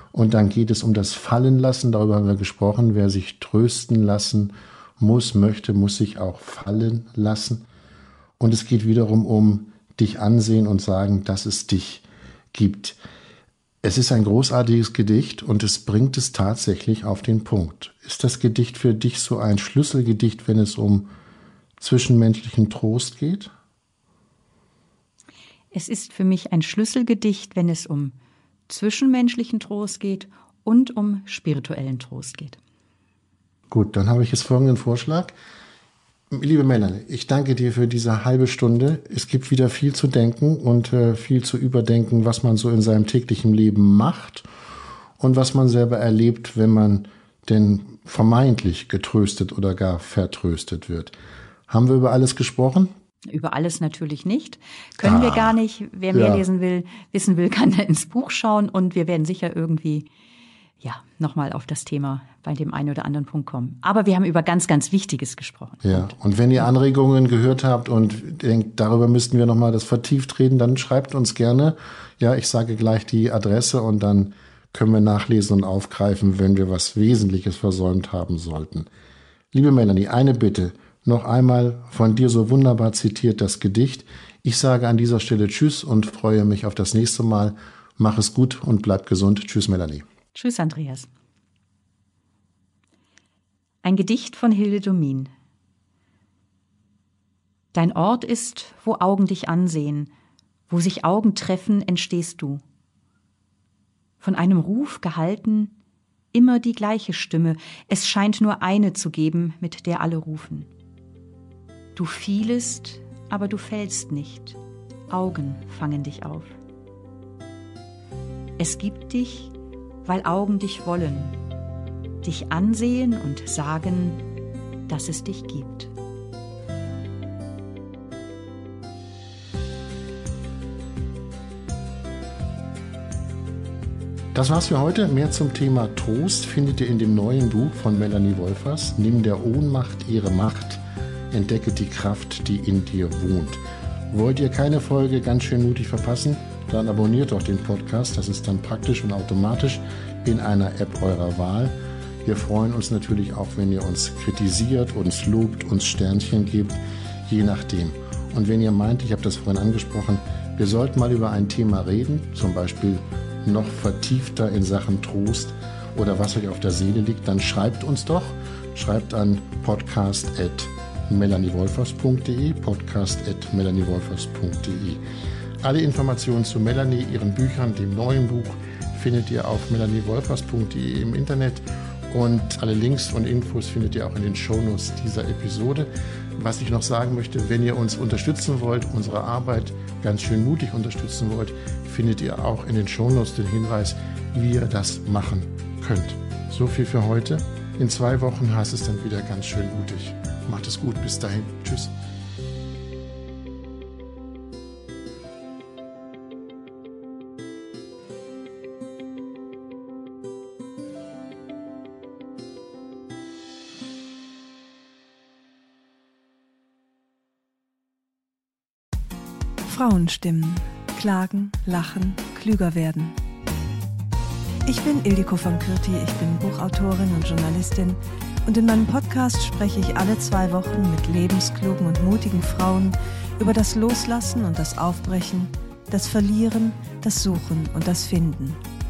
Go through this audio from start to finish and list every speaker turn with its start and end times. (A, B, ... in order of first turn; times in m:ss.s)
0:00.1-0:07.6 A
0:08.4-0:13.0 A
0:13.8-0:21.1 A
0:21.8-0:23.5 A
0:25.7-0:28.1 B
0:28.7-0:32.6 B
0:33.7-0:35.3 A
0:36.3-0:44.4 A
0:45.2-0:51.1 A
0:51.7-0:52.9 A
0:53.3-1:00.0 B
0:55.0-0:55.6 A
0:56.1-0:56.4 A
1:00.8-1:06.2 B
1:05.8-1:18.9 A
1:19.5-1:30.0 A
1:30.3-1:31.1 B
1:33.8-1:35.3 B
1:37.7-1:40.1 B
1:40.7-1:42.6 B
1:44.2-1:45.7 B
1:46.3-1:50.7 B
1:52.0-1:54.6 B
1:55.1-1:56.6 B
1:58.6-1:59.5 B
2:00.0-2:01.3 B
2:02.2-2:04.2 B
2:04.9-2:05.9 B
2:14.3-2:55.0 A
2:55.6-3:21.9 A
3:39.6-3:43.2 C
3:44.6-3:58.6 C